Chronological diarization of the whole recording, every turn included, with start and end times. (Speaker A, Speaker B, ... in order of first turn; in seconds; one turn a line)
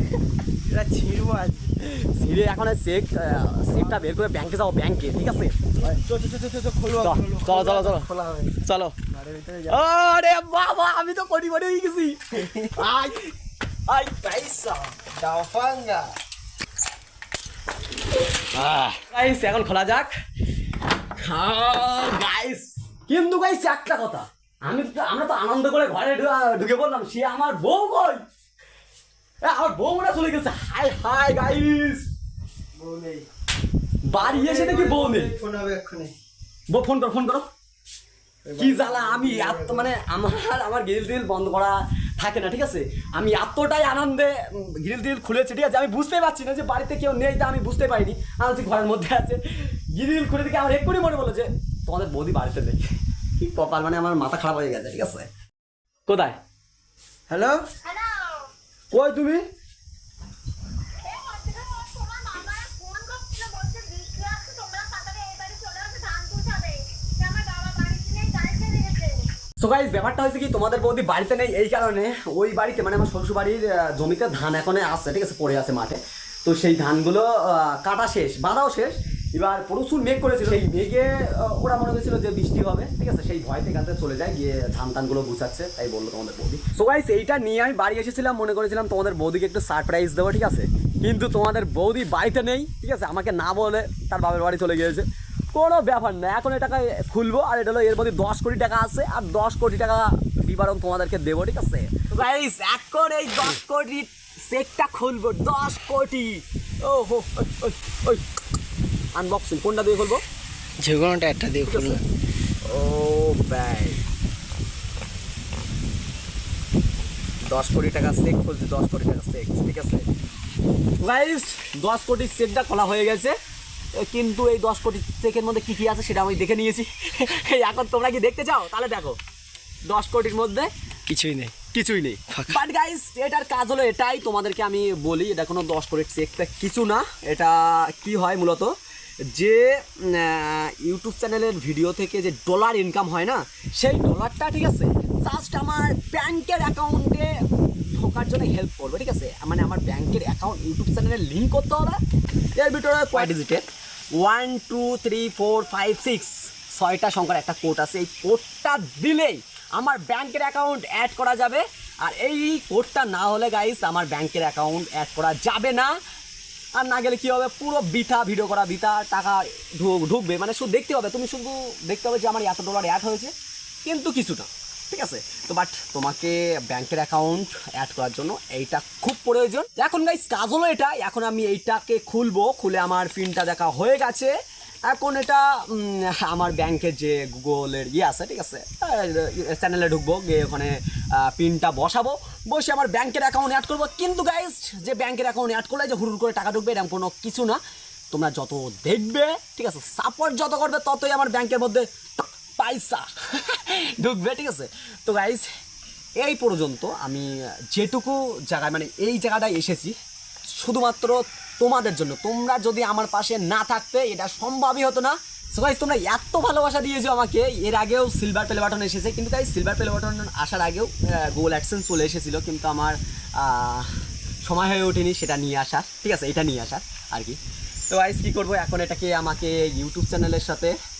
Speaker A: 0.7-1.8
Speaker B: 1.8-6.0
Speaker A: 5.9-8.6
Speaker B: 6.9-9.0
Speaker A: 9.1-9.8
Speaker B: 9.7-13.3
Speaker B: 13.9-14.8
Speaker A: 14.9-16.1
Speaker B: 18.5-20.1
Speaker B: 21.2-28.2
Speaker B: 29.4-32.1
Speaker A: 32.8-33.3
Speaker B: 34.0-35.3
Speaker A: 34.2-36.1
Speaker B: 36.7-37.5
Speaker A: 38.5-39.9
Speaker B: 38.5-52.9
Speaker B: 53.4-55.3
Speaker B: 56.1-56.4
Speaker A: 57.3-57.7
Speaker C: 57.8-58.5
Speaker B: 58.9-59.4
Speaker C: 61.0-69.3
Speaker B: 69.6-108.2
Speaker B: 109.1-110.2
Speaker A: 110.8-112.0
Speaker B: 111.6-112.0
Speaker B: 112.7-114.0
Speaker B: 117.5-120.0
Speaker B: 121.0-123.4
Speaker B: 124.0-129.2
Speaker B: 129.9-130.7
Speaker A: 131.1-131.5
Speaker B: 131.7-138.7
Speaker A: 132.3-132.6
Speaker B: 139.3-147.3
Speaker B: 147.9-152.0
Speaker B: 152.6-165.9
Speaker B: 166.8-173.3
Speaker B: 173.8-184.3
Speaker B: 184.9-197.6
Speaker B: 198.1-205.5
Speaker B: 206.2-209.9
Speaker B: 210.6-227.4
Speaker B: 227.9-230.8